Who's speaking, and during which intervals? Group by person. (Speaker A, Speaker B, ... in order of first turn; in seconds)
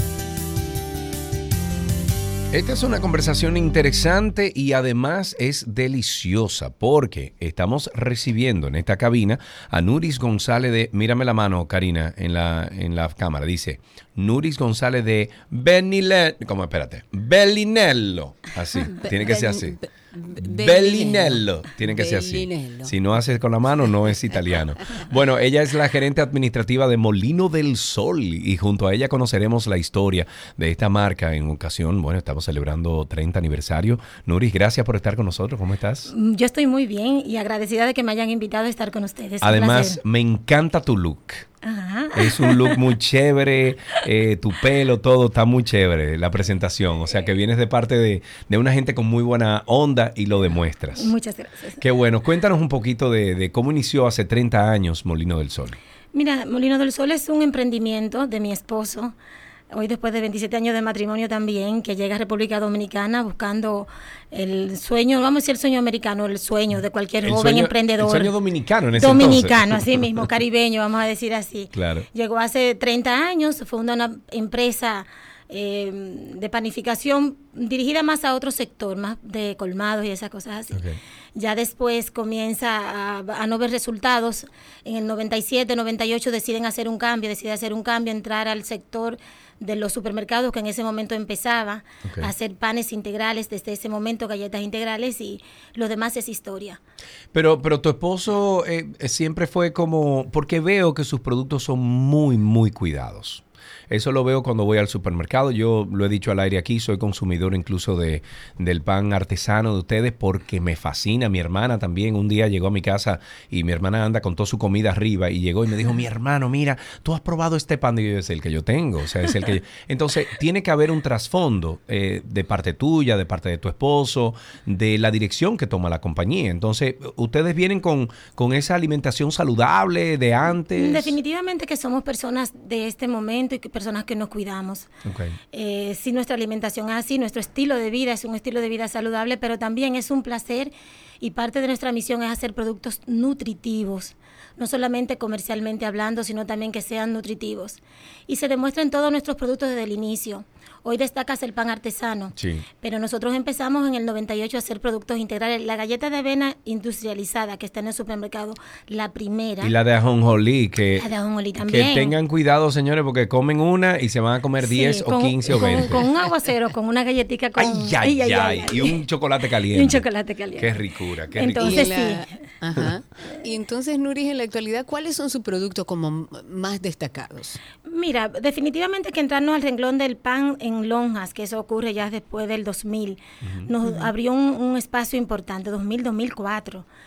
Speaker A: 2.5-19.8, 20.4-36.1, 39.4-41.5, 42.1-51.1, 51.8-55.8, 67.2-70.3, 71.7-72.1, 80.7-81.0, 92.0-92.3, 97.3-131.2, 135.1-135.4, 152.4-152.7, 159.6-161.1, 161.6-166.1, 167.6-171.9, 183.4-183.7
Speaker B: 18.9-22.9, 171.6-177.6
Speaker C: 36.1-40.0, 41.6-42.8, 50.9-51.8, 56.1-59.1, 59.7-68.3, 69.0-80.8, 81.4-96.8, 130.8-134.9, 135.5-159.7, 161.0-162.2, 164.6-169.0, 169.7-170.8, 171.3-172.3, 177.9-186.9